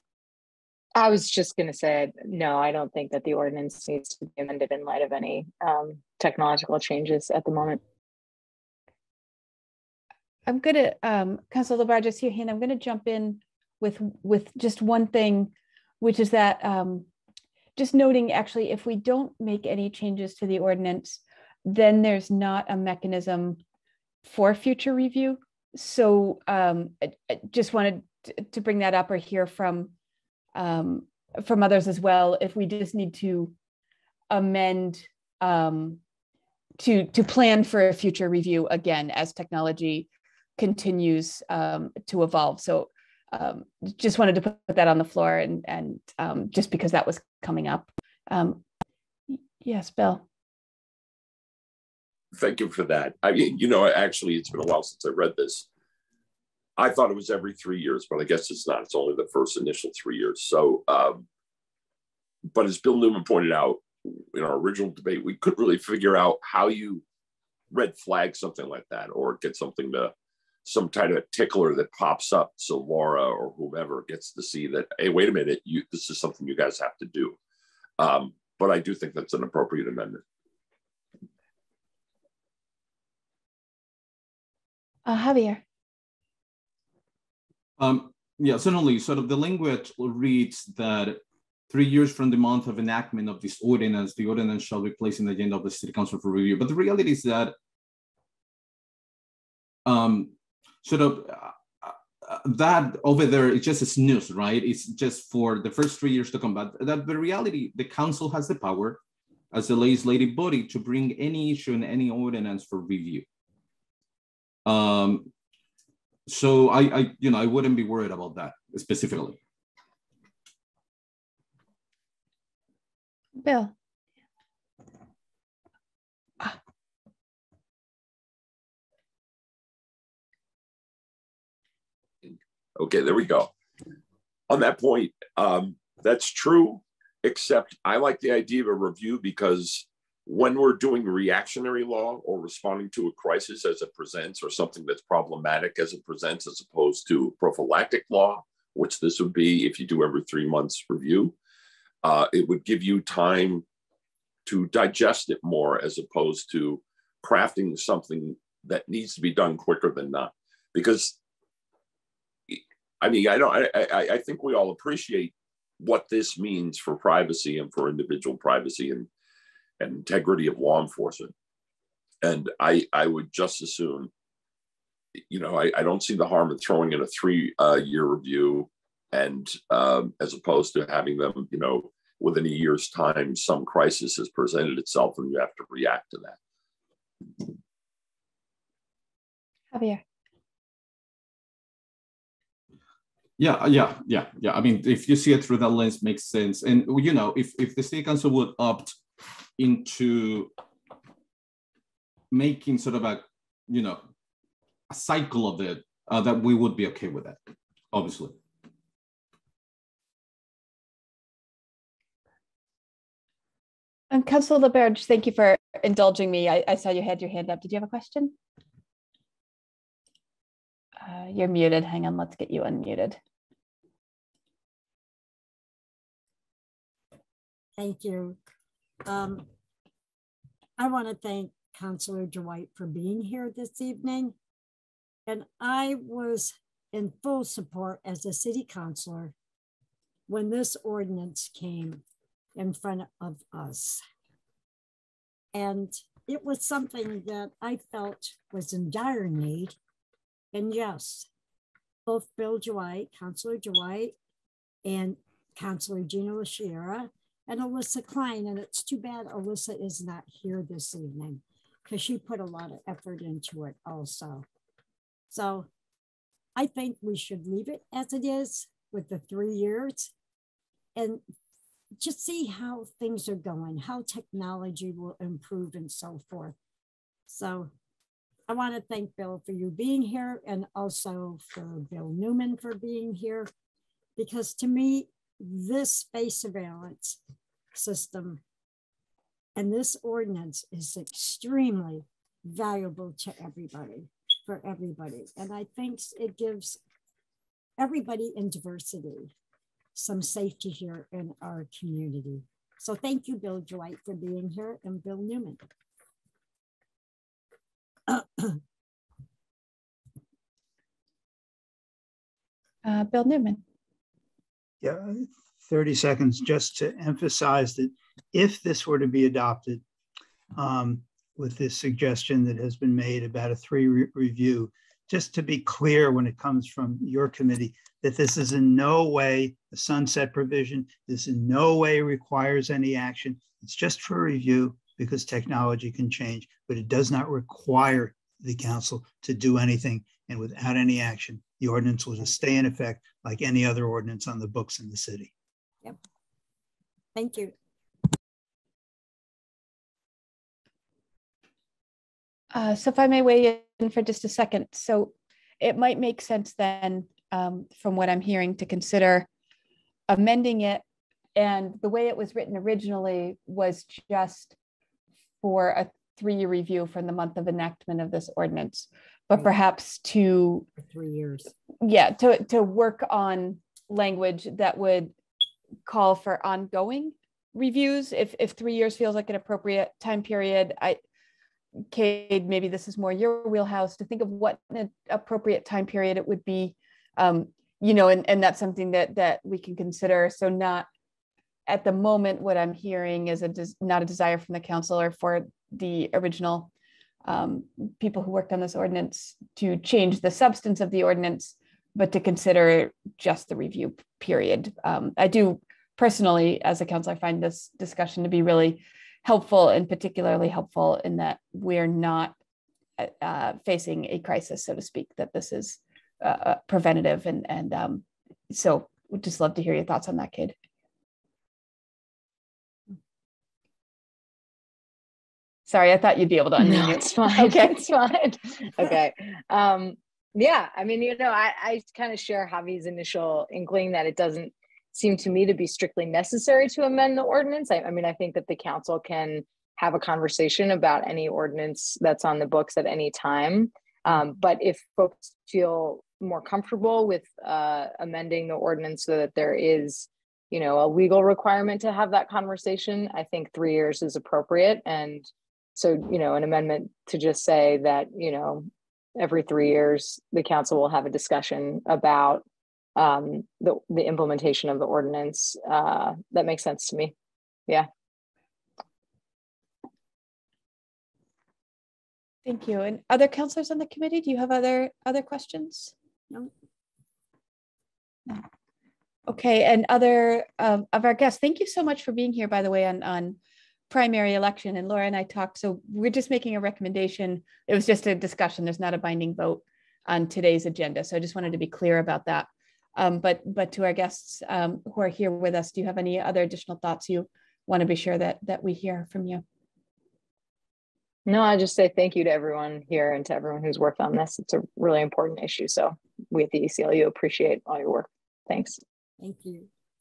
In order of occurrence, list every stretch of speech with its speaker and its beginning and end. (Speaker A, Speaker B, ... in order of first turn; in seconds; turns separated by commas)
Speaker A: 1.0-7.8, Speaker B: 10.5-17.1, Speaker B: 17.8-23.6, Speaker B: 24.2-29.9, Speaker B: 30.6-33.5, Speaker B: 34.3-36.0, Speaker B: 36.8-48.6, Speaker B: 49.3-50.2, Speaker C: 52.3-55.7, Speaker C: 56.8-61.2, Speaker C: 62.5-67.0, Speaker C: 67.7-70.1, Speaker C: 70.7-77.4, Speaker C: 78.0-80.2, Speaker B: 85.1-85.6, Speaker D: 87.8-97.5, Speaker D: 99.9-109.0, Speaker D: 109.5-113.3, Speaker D: 114.7-115.3, Speaker D: 116.3-119.4, Speaker B: 123.4-123.7, Speaker C: 132.3-133.5, Speaker C: 134.5-151.3, Speaker C: 152.0-153.6, Speaker C: 154.5-161.2, Speaker C: 162.5-169.1, Speaker C: 169.8-171.3, Speaker C: 172.2-174.1, Speaker C: 175.3-186.4, Speaker B: 189.7-190.0, Speaker D: 193.4-199.0, Speaker D: 199.6-200.5, Speaker D: 202.3-204.0, Speaker D: 204.9-207.4, Speaker D: 207.9-208.4, Speaker B: 214.1-218.3, Speaker B: 221.0-223.2, Speaker E: 227.8-228.4, Speaker E: 229.0-229.5, Speaker E: 230.8-234.3, Speaker E: 235.3-239.3, Speaker E: 240.3-242.0, Speaker E: 242.6-244.0, Speaker E: 245.5-249.8, Speaker E: 250.5-251.3, Speaker E: 252.1-254.2, Speaker E: 254.8-264.4, Speaker E: 265.3-265.7, Speaker E: 266.6-270.1, Speaker E: 270.9-271.2, Speaker E: 272.0-276.6, Speaker E: 277.3-277.7, Speaker E: 278.5-283.5, Speaker E: 284.2-287.2, Speaker E: 287.7-288.4, Speaker E: 289.6-296.8, Speaker E: 297.8-299.3, Speaker E: 299.9-305.6, Speaker E: 308.1-308.6, Speaker B: 312.8-313.6, Speaker F: 314.8-319.8, Speaker F: 320.6-345.3, Speaker E: 347.1-347.5, Speaker B: 352.5-359.3, Speaker B: 360.1-360.8, Speaker B: 361.4-364.6, Speaker B: 365.4-370.7, Speaker E: 370.8-371.5, Speaker B: 371.8-375.1, Speaker B: 375.9-381.0, Speaker B: 381.9-390.9, Speaker B: 391.7-396.7, Speaker B: 397.2-412.3, Speaker B: 413.0-420.6, Speaker B: 425.7-427.9, Speaker A: 426.6-462.4, Speaker A: 463.0-467.1, Speaker B: 472.4-475.9, Speaker B: 479.3-483.4, Speaker B: 483.9-499.4, Speaker A: 501.3-508.8, Speaker E: 509.2-509.7